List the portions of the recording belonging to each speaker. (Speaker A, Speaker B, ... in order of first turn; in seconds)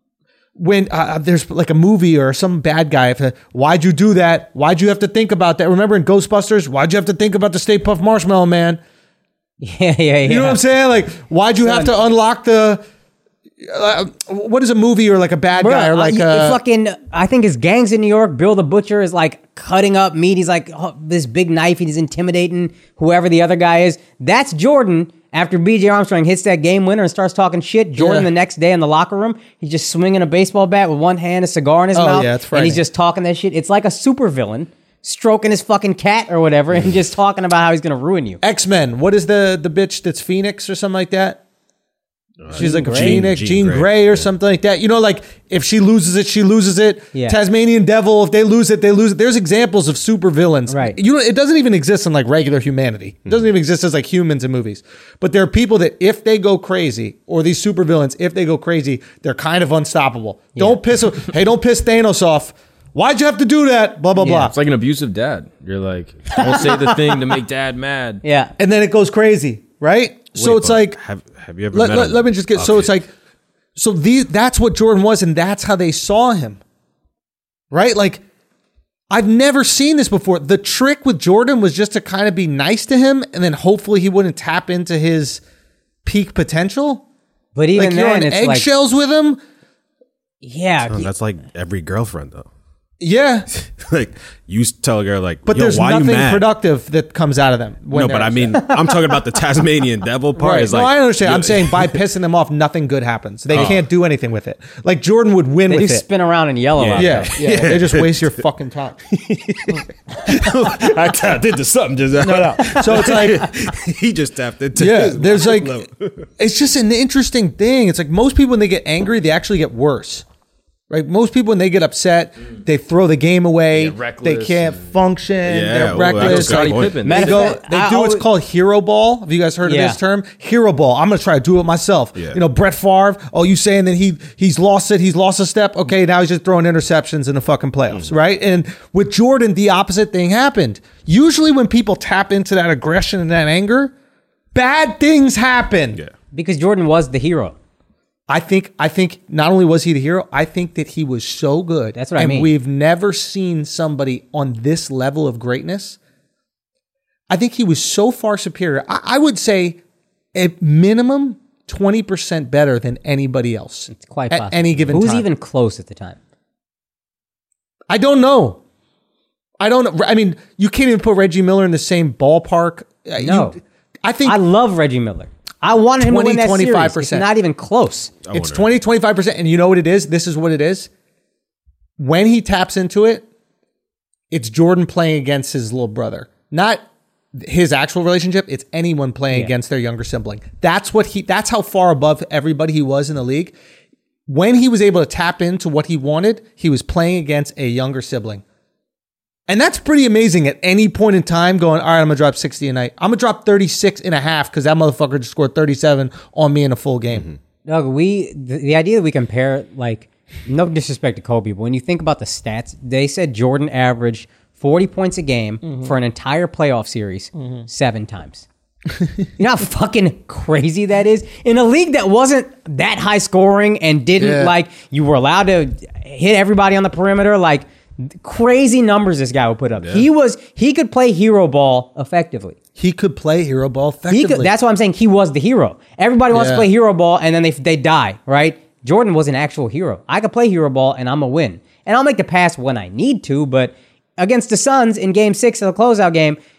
Speaker A: 0.6-8.8, 10.3-12.8, 13.6-16.6, 28.0-28.3, 31.9-32.8, 38.4-41.4, 42.5-64.5, 68.6-71.0, 71.7-73.1, 73.8-76.6, 77.7-78.2, 79.1-85.4, 86.0-87.0, 87.8-89.4, 93.0-93.5, 95.5-98.6, 100.4-106.0, 107.0-109.0, 112.2-113.5, 114.8-115.8, 116.4-120.2, 120.9-143.9, 144.5-146.0, 148.3-156.0, 157.3-159.8, 160.3-165.3, 167.9-168.6, 169.6-174.4, 176.0-177.3, 178.3-180.9, 182.0-183.3, 184.3-186.8, 187.3-193.6, 194.3-198.4, 199.5-207.3, 215.6-215.9, 217.4-217.7, 224.2-224.5, 232.8-234.5, 236.3-236.7
Speaker B: 9.6-10.6, 11.6-11.9, 15.6-38.4, 42.6-43.2, 50.7-51.0, 64.2-64.5, 66.3-67.2, 68.2-68.5, 87.5-88.7, 90.4-91.1, 98.6-98.9, 105.7-107.4, 127.0-128.3, 129.7-130.0, 146.3-147.6, 152.0-152.5, 163.9-166.2, 173.2-173.6, 174.2-178.1, 207.7-218.5, 219.4-232.6, 234.1-246.4
Speaker C: 42.4-44.2, 70.4-72.9, 90.9-92.5, 93.5-96.5, 97.9-102.0, 103.5-103.8, 106.8-108.4, 109.1-116.3, 125.5-127.0, 178.3-178.6
Speaker D: 64.4-68.2, 123.7-124.9, 125.9-127.5